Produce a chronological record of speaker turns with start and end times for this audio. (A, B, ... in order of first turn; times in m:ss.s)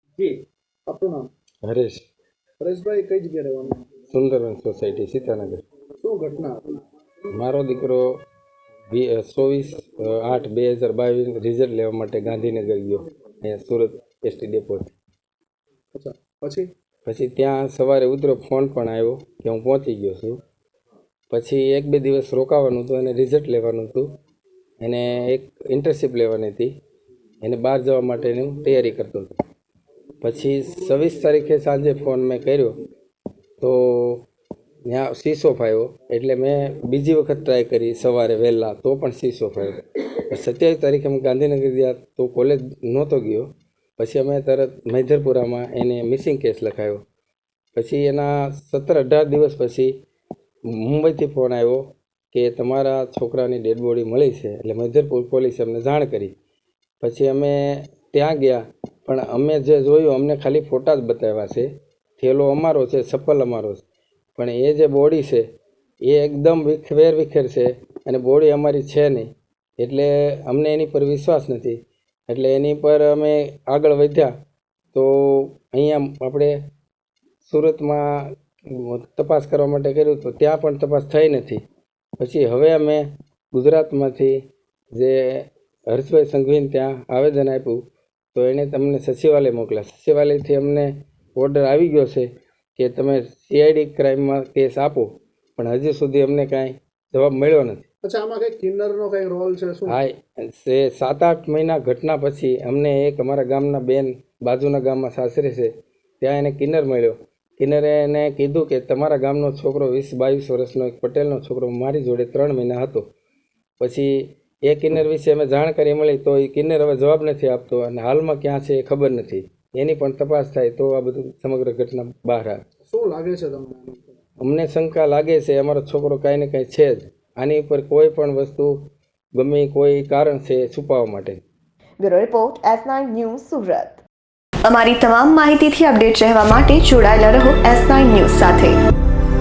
0:00.2-0:01.3 A
0:01.6-0:02.0 B
0:02.6-0:03.8 A
0:04.1-0:05.6 B
0:06.0-0:06.8 A
0:07.3-0:08.1 B
0:08.9-0:14.9 B
0:15.9-0:16.7 A
0:17.1-0:20.4 B
0:21.3-0:24.1 B
0:24.8-0:26.7 B
0:27.4-0:29.3 B
0:30.2-0:32.7 B
0:33.6-0:34.2 B
0:34.9-0:47.0 B
0:47.8-0:49.9 B
0:50.7-0:56.3 B
0:57.0-1:03.8 B
1:04.4-1:05.4 B
1:06.1-1:14.3 B
1:14.9-1:16.6 B
1:17.4-1:21.6 B
1:22.2-1:24.4 B
1:25.0-1:27.8 B
1:28.3-1:37.8 B
1:38.0-1:40.0 A
1:39.9-1:53.0 B
1:53.8-2:02.6 B
2:02.9-2:04.1 A
2:04.4-2:08.7 B
2:09.4-2:11.4 B
2:12.0-2:14.0 C
2:14.6-2:18.8 C